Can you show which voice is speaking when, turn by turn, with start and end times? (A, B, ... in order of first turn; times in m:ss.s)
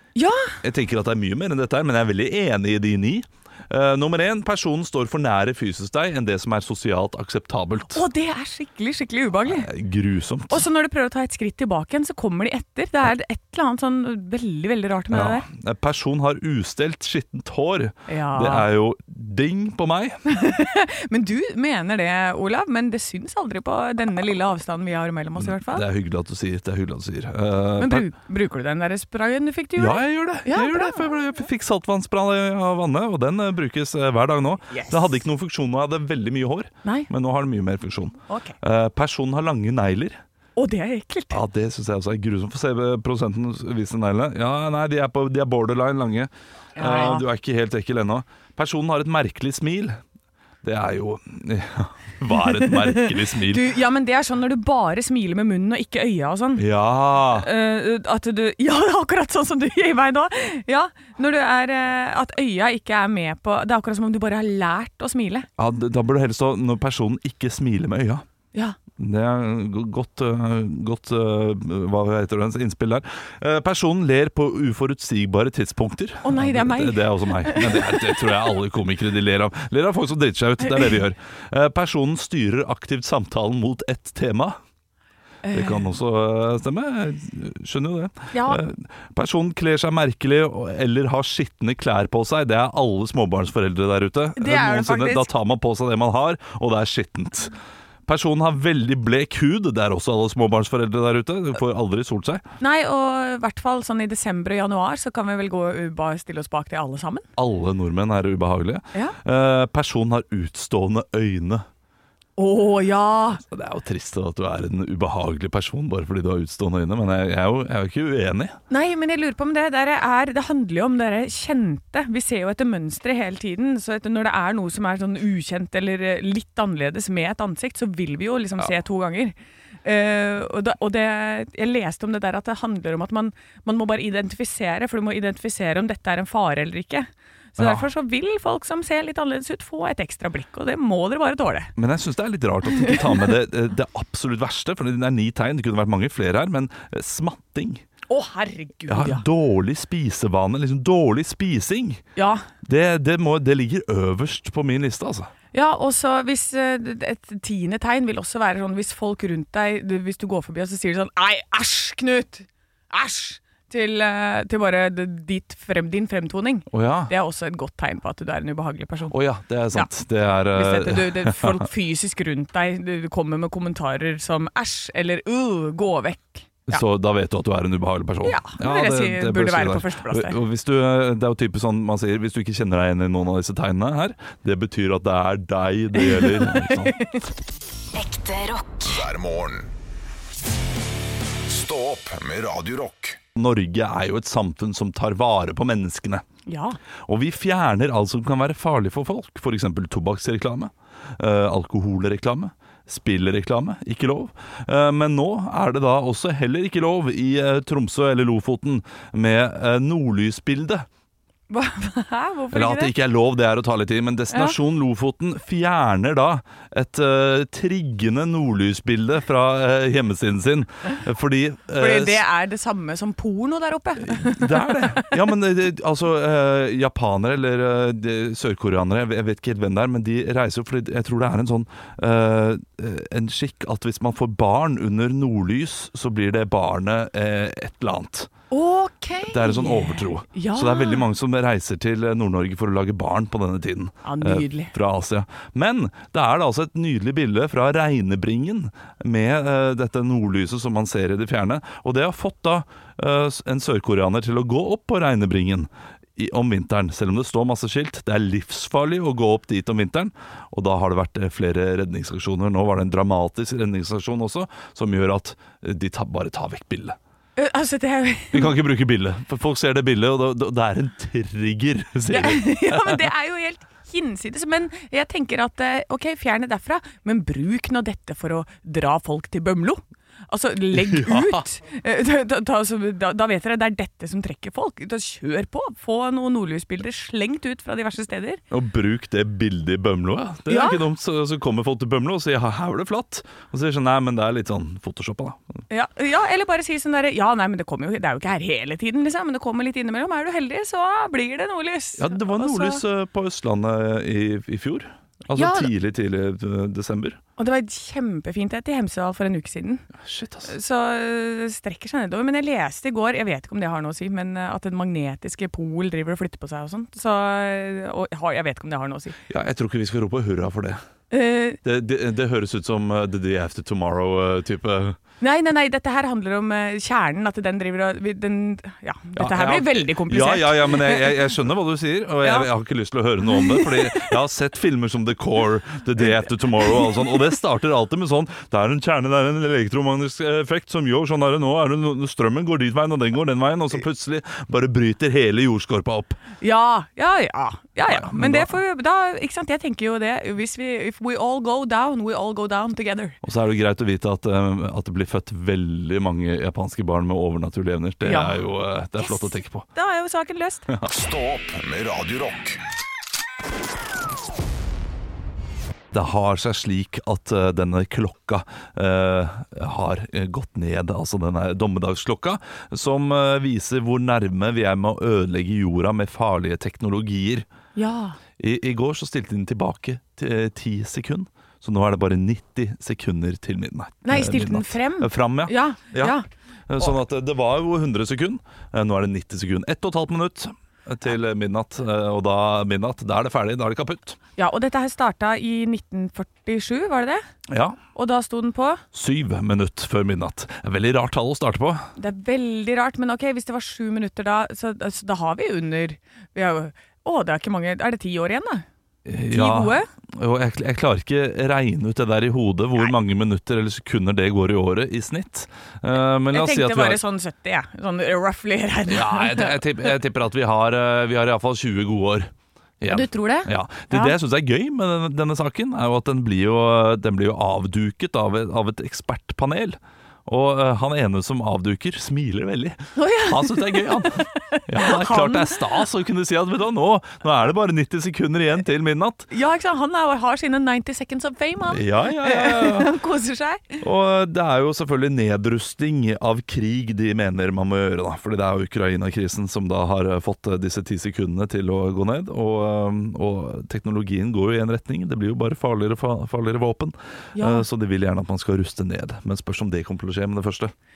0:00.2-0:00.5 A
0:00.6-0:08.0 B
0:07.9-0:09.7 A
0:09.4-0:10.6 B
0:10.5-0:15.4 A
0:15.1-0:20.2 B
0:18.1-0:18.7 A
0:20.3-0:25.8 A
0:25.4-0:28.0 B
0:27.8-0:31.1 A
0:29.8-0:40.2 B
0:34.7-0:35.1 A
0:38.3-0:38.5 A
0:40.6-0:41.4 A
0:41.3-0:50.0 B
0:46.8-0:47.2 A
0:50.6-0:53.7 B
0:52.5-0:56.6 A
0:56.6-0:57.5 B
0:57.3-1:05.5 A
1:05.6-1:08.2 B
1:09.0-1:24.6 B
1:16.2-1:18.5 A
1:20.6-1:20.9 A
1:25.4-1:25.9 A
1:25.5-1:37.5 B
1:28.3-1:28.6 A
1:34.4-1:35.3 A
1:38.1-1:42.4 B
1:42.6-1:47.2 A
1:47.4-1:51.6 B
1:52.4-1:53.4 A
1:53.5-1:58.6 B
1:58.7-2:21.7 A
2:17.6-2:17.8 B
2:21.8-2:27.8 B
2:28.1-2:29.2 A
2:28.9-2:32.0 B
2:32.2-2:32.4 A
2:32.6-2:35.3 B
2:35.5-2:49.1 A
2:46.7-2:47.1 B
2:49.1-2:51.7 B
2:50.5-2:56.8 A
2:56.7-3:07.0 B
2:58.2-3:00.4 A
3:06.0-3:07.2 A
3:07.9-3:09.7 C
3:11.4-3:13.2 C
3:13.4-3:16.2 B
3:16.5-3:16.8 A
3:17.1-3:30.8 B
3:31.5-3:32.9 A
3:32.5-3:42.2 B
3:41.8-3:45.0 A
3:44.0-3:58.3 B
3:58.5-4:01.0 A
3:59.3-4:27.0 B
4:04.0-4:04.7 A
4:27.4-4:28.5 A
4:28.3-4:33.0 B
4:32.1-4:48.4 A
4:40.7-4:41.4 B
4:48.5-4:55.6 B
4:50.5-4:50.8 A
4:55.7-5:02.8 A
5:02.0-5:07.2 B
5:05.3-5:05.7 A
5:07.4-5:09.8 A
5:10.0-5:10.5 B
5:10.5-5:19.2 A
5:19.3-5:20.8 B
5:21.1-5:21.6 A
5:21.6-5:25.0 B
5:25.2-5:31.2 A
5:29.2-5:46.2 B
5:32.2-5:32.5 A
5:33.3-5:34.1 A
5:36.6-5:37.0 A
5:46.4-5:53.2 A
5:47.9-5:48.5 B
5:53.2-5:59.6 B
5:58.0-5:58.4 A
5:59.0-6:00.6 A
6:00.8-6:02.6 C
6:05.9-6:17.4 B
6:17.8-6:18.2 A
6:18.4-6:26.2 B
6:24.0-6:26.2 A
6:26.7-6:34.2 B
6:34.4-6:37.2 A
6:37.5-6:37.8 B
6:37.9-6:38.8 A
6:38.9-6:41.9 B
6:42.0-6:48.6 A
6:49.0-6:57.0 B
6:49.3-6:49.9 A
6:56.3-6:59.6 A
6:58.9-7:02.3 B
7:02.8-7:19.3 B
7:02.9-7:04.2 A
7:13.0-7:15.6 A
7:19.3-7:23.8 A
7:21.7-7:22.9 B
7:23.8-7:40.7 B
7:37.4-7:37.6 A